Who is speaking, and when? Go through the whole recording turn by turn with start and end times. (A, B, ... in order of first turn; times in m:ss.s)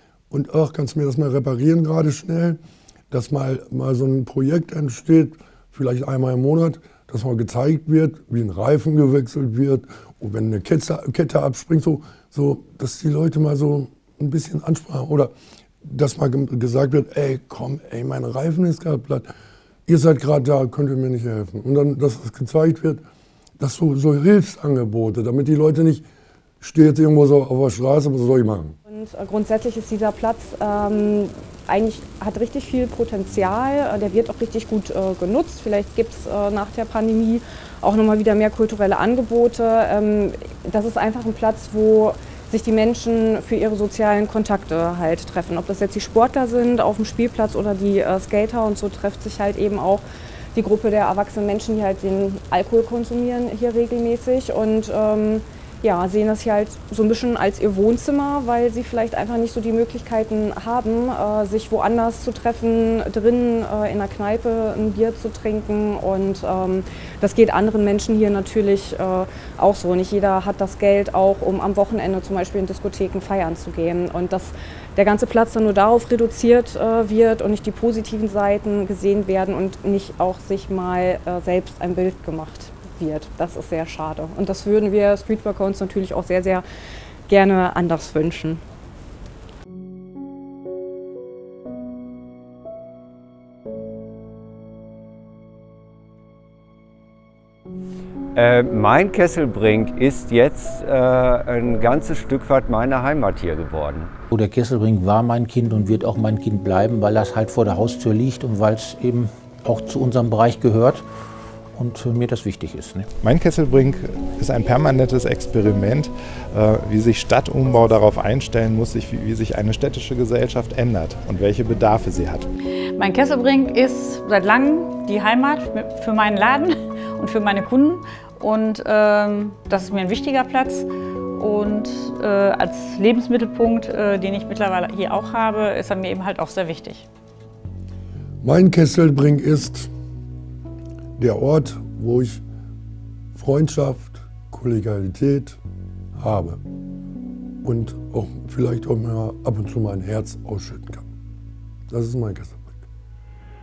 0:00.3-0:02.6 A
0:03.1-0:15.3 A
0:15.8-0:19.3 A
0:19.9-0:23.0 A
0:23.6-0:26.0 A
0:26.6-0:28.8 A
0:28.9-0:50.0 B
0:50.6-1:26.6 B
1:27.3-1:28.6 B
1:38.4-1:44.1 C
1:44.3-1:51.0 D
1:51.8-1:53.1 D
1:53.2-2:02.5 E
2:03.0-2:17.1 F
2:18.4-2:19.9 A
2:21.2-2:22.4 A
2:23.4-2:25.6 A
2:26.2-2:26.6 A
2:27.6-2:31.1 A
2:31.9-2:32.8 A